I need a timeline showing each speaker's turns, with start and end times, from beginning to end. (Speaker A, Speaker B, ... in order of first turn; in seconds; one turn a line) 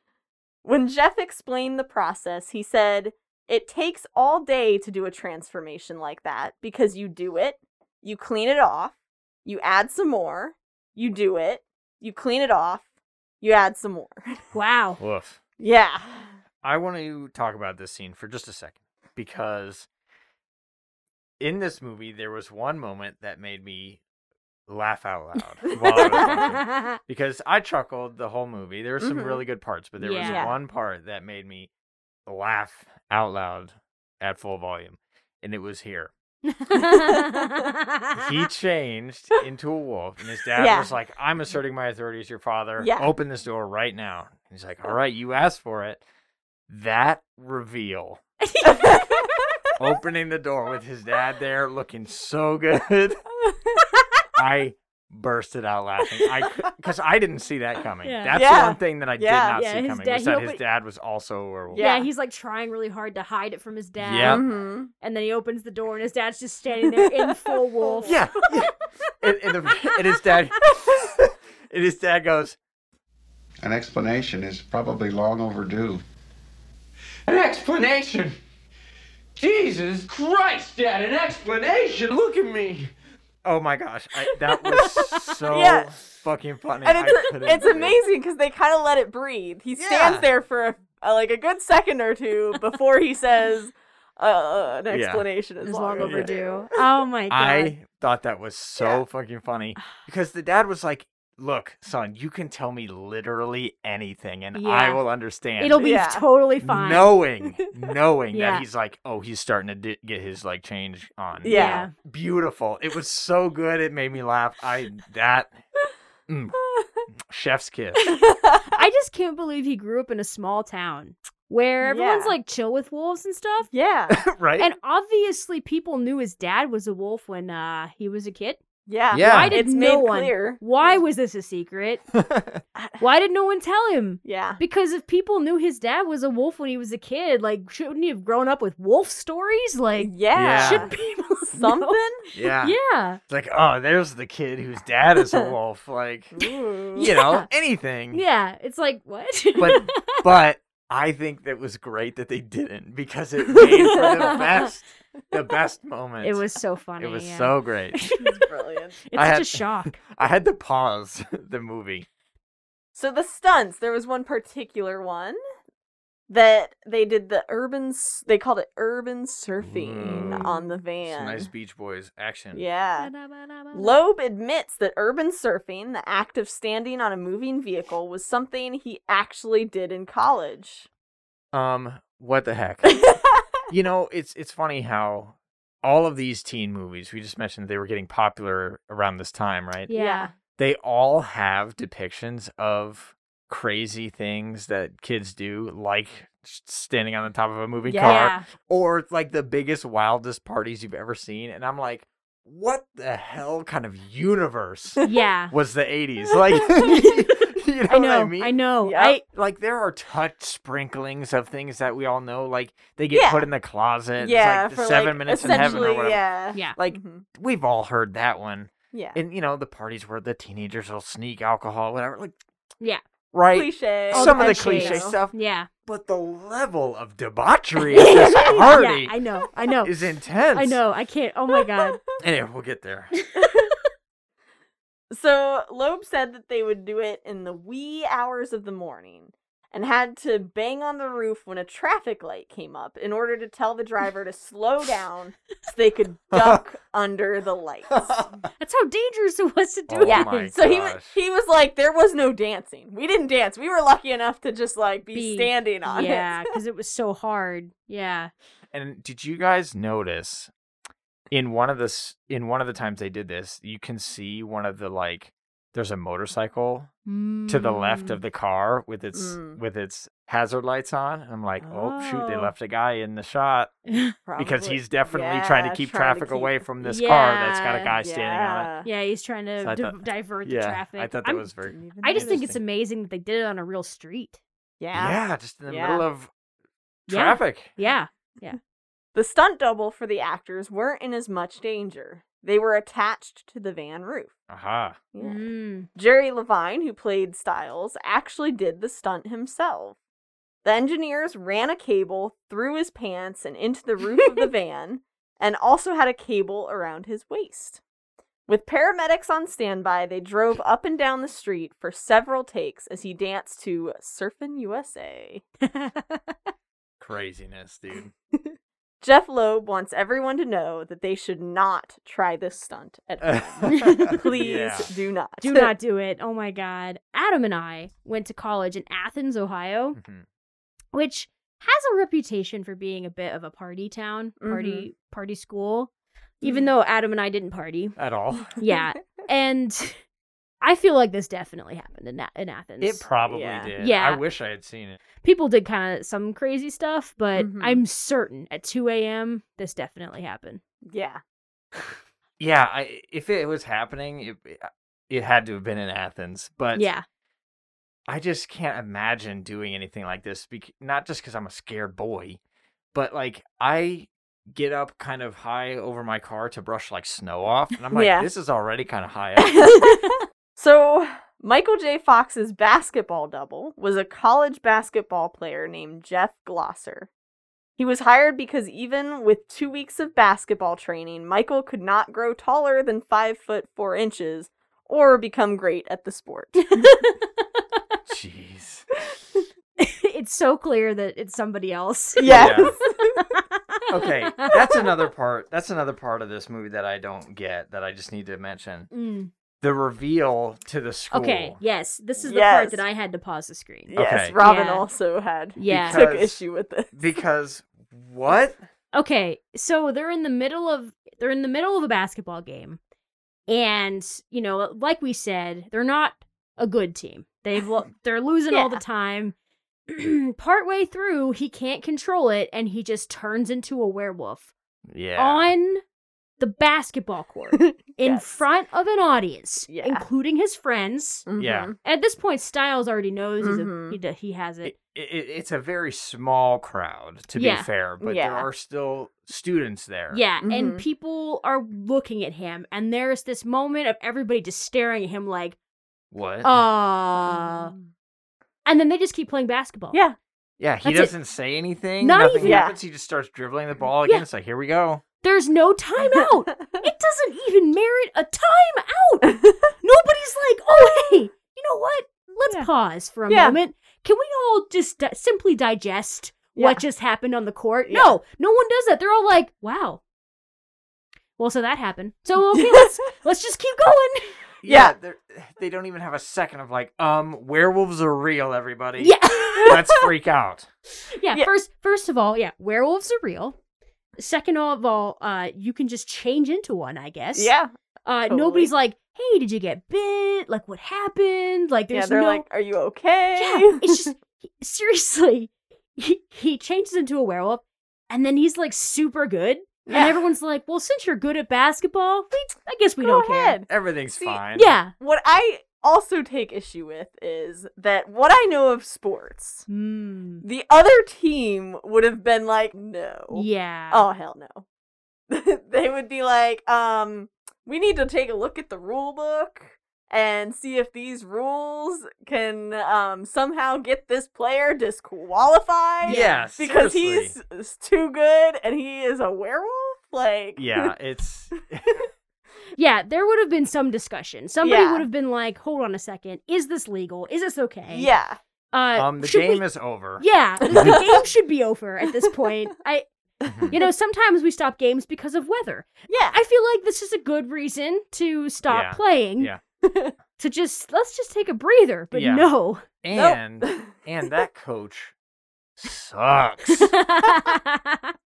Speaker A: 0.6-12.8
Speaker A: 13.4-14.4
Speaker B: 14.5-15.0
Speaker C: 15.0-15.4
Speaker A: 15.6-16.4
Speaker C: 16.6-19.9
Speaker C: 21.4-24.0
Speaker C: 24.7-31.7
Speaker A: 25.7-26.4
Speaker B: 25.9-27.0
Speaker A: 29.0-29.4
Speaker B: 30.0-30.5
Speaker A: 30.2-30.5
Speaker C: 32.2-36.1
Speaker B: 36.5-38.2
Speaker A: 36.7-37.6
Speaker C: 38.1-46.0
Speaker A: 40.6-40.9
Speaker A: 42.8-43.1
Speaker C: 46.7-48.2
Speaker B: 48.4-49.2
Speaker A: 48.6-49.4
Speaker C: 49.8-53.2
Speaker A: 53.4-53.8
Speaker C: 54.4-61.8
Speaker B: 58.0-58.4
Speaker A: 58.3-59.6
Speaker B: 59.5-60.6
Speaker A: 61.7-62.1
Speaker B: 61.8-64.5
Speaker C: 64.0-64.4
Speaker A: 64.2-64.9
Speaker B: 65.0-68.5
Speaker A: 67.3-68.5
Speaker C: 68.0-72.6
Speaker D: 73.6-76.0
Speaker E: 77.3-78.3
Speaker E: 79.3-82.9
Speaker C: 83.4-88.0
Speaker A: 84.5-85.9
Speaker A: 86.8-96.7
Speaker C: 89.8-90.3
Speaker C: 94.9-95.2
Speaker B: 95.6-97.7
Speaker C: 96.0-96.3
Speaker C: 97.3-105.8
Speaker B: 104.5-105.0
Speaker B: 105.6-107.1
Speaker A: 105.8-106.2
Speaker C: 106.6-115.5
Speaker B: 108.3-108.7
Speaker A: 111.4-111.9
Speaker B: 111.5-111.9
Speaker C: 116.3-116.6
Speaker A: 116.6-117.0
Speaker C: 117.1-118.0
Speaker A: 118.1-118.8
Speaker B: 118.7-123.7
Speaker A: 121.8-122.3
Speaker A: 123.7-124.2
Speaker C: 124.1-124.7
Speaker B: 124.6-128.6
Speaker A: 128.8-131.0
Speaker C: 129.1-129.6
Speaker B: 129.1-132.0
Speaker C: 132.1-132.6
Speaker A: 132.7-133.0
Speaker B: 133.0-142.0
Speaker A: 134.2-134.6
Speaker A: 140.0-142.2
Speaker C: 140.3-140.9
Speaker C: 142.3-142.8
Speaker B: 142.6-143.2
Speaker C: 143.3-146.3
Speaker A: 146.3-147.1
Speaker C: 146.9-148.2
Speaker B: 147.0-147.4
Speaker B: 148.1-150.2
Speaker C: 149.6-156.4
Speaker B: 153.6-154.7
Speaker A: 153.8-154.1
Speaker B: 156.2-158.4
Speaker C: 157.0-158.0
Speaker A: 158.2-159.0
Speaker B: 159.0-160.0
Speaker C: 159.1-162.1
Speaker A: 162.9-165.4
Speaker A: 166.3-171.5
Speaker C: 169.6-170.4
Speaker B: 170.2-170.7
Speaker C: 171.0-172.6
Speaker A: 172.5-173.1
Speaker B: 173.0-173.9
Speaker A: 173.7-180.9
Speaker C: 181.5-183.0
Speaker A: 182.8-183.4
Speaker C: 183.7-189.9
Speaker B: 189.9-190.3
Speaker A: 189.9-190.3
Speaker C: 190.6-208.6
Speaker A: 197.8-198.3
Speaker B: 198.0-198.5
Speaker B: 205.0-205.5
Speaker B: 206.8-207.2
Speaker B: 207.9-209.2
Speaker A: 208.8-209.1
Speaker C: 209.2-216.2
Speaker A: 213.1-213.5
Speaker A: 214.2-217.2
Speaker B: 215.4-215.9
Speaker C: 216.7-222.4
Speaker A: 218.9-219.2
Speaker C: 223.3-225.3
Speaker A: 223.5-225.2
Speaker B: 224.1-225.7
Speaker C: 225.8-229.1
Speaker B: 227.9-229.9
Speaker A: 228.1-228.8
Speaker C: 229.8-230.8
Speaker B: 230.5-232.0
Speaker A: 231.5-232.0
Speaker C: 232.2-233.1
Speaker A: 233.3-233.8
Speaker A: 235.1-248.2
Speaker C: 246.3-246.6
Speaker C: 247.9-248.4
Speaker B: 248.6-250.5
Speaker C: 249.9-251.2
Speaker A: 250.0-256.5
Speaker B: 255.1-258.3
Speaker C: 258.7-260.5
Speaker C: 261.3-266.9
Speaker B: 267.1-268.2
Speaker C: 267.5-273.8
Speaker A: 269.1-269.6
Speaker B: 271.6-272.5
Speaker B: 273.9-274.1
Speaker A: 274.2-276.6
Speaker C: 274.4-278.7
Speaker B: 276.8-277.9
Speaker A: 278.0-278.9
Speaker B: 278.8-281.5
Speaker C: 279.6-282.6
Speaker A: 281.7-282.5
Speaker B: 282.0-284.4
Speaker A: 284.8-286.0
Speaker C: 284.9-286.3
Speaker C: 287.1-287.7
Speaker B: 287.1-288.6
Speaker A: 289.1-294.3
Speaker C: 294.5-295.0
Speaker A: 295.1-300.0
Speaker B: 295.2-295.9
Speaker A: 300.6-307.8
Speaker A: 308.5-315.4
Speaker B: 315.6-316.4
Speaker C: 317.0-318.1
Speaker A: 318.3-325.7
Speaker C: 323.2-324.9
Speaker B: 323.7-324.2
Speaker B: 325.4-330.0
Speaker C: 329.9-330.2
Speaker B: 330.9-337.9
Speaker A: 334.4-334.9
Speaker C: 337.9-338.5
Speaker B: 338.6-340.0
Speaker B: 340.6-343.1
Speaker C: 342.8-345.0
Speaker A: 343.3-343.7
Speaker B: 343.8-344.2
Speaker B: 345.2-350.6
Speaker A: 347.3-347.8
Speaker A: 350.8-351.2
Speaker C: 352.4-356.9
Speaker B: 356.7-357.0
Speaker C: 358.1-362.4
Speaker C: 362.9-369.6
Speaker A: 367.9-368.3
Speaker A: 369.4-377.1
Speaker B: 369.7-370.2
Speaker A: 377.8-386.9
Speaker B: 386.7-387.1
Speaker C: 388.1-388.9
Speaker B: 389.8-392.7
Speaker A: 392.1-393.2
Speaker C: 392.2-392.8
Speaker B: 393.4-393.8
Speaker C: 393.9-398.9
Speaker A: 394.5-394.8
Speaker B: 398.9-399.3
Speaker C: 399.6-401.6
Speaker B: 401.1-404.9
Speaker A: 402.2-402.8
Speaker A: 403.9-407.0
Speaker C: 403.9-404.3
Speaker B: 405.6-406.1
Speaker C: 405.7-406.4
Speaker C: 406.9-408.6
Speaker B: 408.9-412.8
Speaker B: 413.5-419.3
Speaker A: 418.5-418.8
Speaker B: 419.9-424.5
Speaker C: 424.9-425.5
Speaker B: 425.1-425.8
Speaker B: 426.4-431.2
Speaker A: 427.5-428.3
Speaker A: 429.7-430.1
Speaker A: 431.3-431.8
Speaker C: 431.4-431.7
Speaker B: 431.8-434.7
Speaker A: 433.4-434.0
Speaker C: 434.6-440.2
Speaker B: 437.4-437.7
Speaker A: 438.0-438.5
Speaker B: 440.1-445.6
Speaker A: 440.4-440.8
Speaker C: 446.1-446.5
Speaker B: 446.4-447.7
Speaker A: 447.3-447.9
Speaker B: 448.6-450.0
Speaker C: 450.6-455.0
Speaker B: 450.8-451.1
Speaker B: 452.0-452.6
Speaker A: 452.4-452.8
Speaker B: 455.2-470.0
Speaker A: 456.2-456.8
Speaker A: 459.2-459.7
Speaker A: 463.3-463.6
Speaker A: 466.6-466.8
Speaker A: 467.9-468.1
Speaker B: 471.4-474.4
Speaker A: 472.5-472.9
Speaker C: 474.6-480.7
Speaker A: 474.6-474.9
Speaker B: 479.0-479.8
Speaker A: 479.6-480.1
Speaker B: 481.1-483.6
Speaker B: 484.2-487.5
Speaker A: 487.3-487.7
Speaker B: 488.0-492.4
Speaker A: 488.3-488.7
Speaker A: 491.9-494.1
Speaker B: 493.4-503.6
Speaker A: 499.9-500.2
Speaker A: 503.0-509.7
Speaker C: 503.7-504.7
Speaker B: 504.5-504.9
Speaker B: 509.7-510.4
Speaker A: 510.4-514.6
Speaker B: 513.3-514.0
Speaker A: 515.3-530.9
Speaker B: 526.0-526.5
Speaker C: 526.0-527.3
Speaker C: 530.5-532.0
Speaker B: 532.8-538.1
Speaker A: 534.6-535.0
Speaker A: 537.9-538.4
Speaker B: 538.7-539.6
Speaker C: 538.9-541.0
Speaker B: 540.2-543.1
Speaker A: 540.6-541.2
Speaker C: 543.5-543.7
Speaker A: 543.5-543.9
Speaker B: 543.7-549.5
Speaker A: 546.1-546.4
Speaker C: 548.7-549.6
Speaker A: 549.8-550.1
Speaker B: 550.4-552.9
Speaker C: 552.1-552.5
Speaker C: 553.0-555.1
Speaker A: 553.1-554.0
Speaker C: 555.8-556.9
Speaker B: 556.9-558.1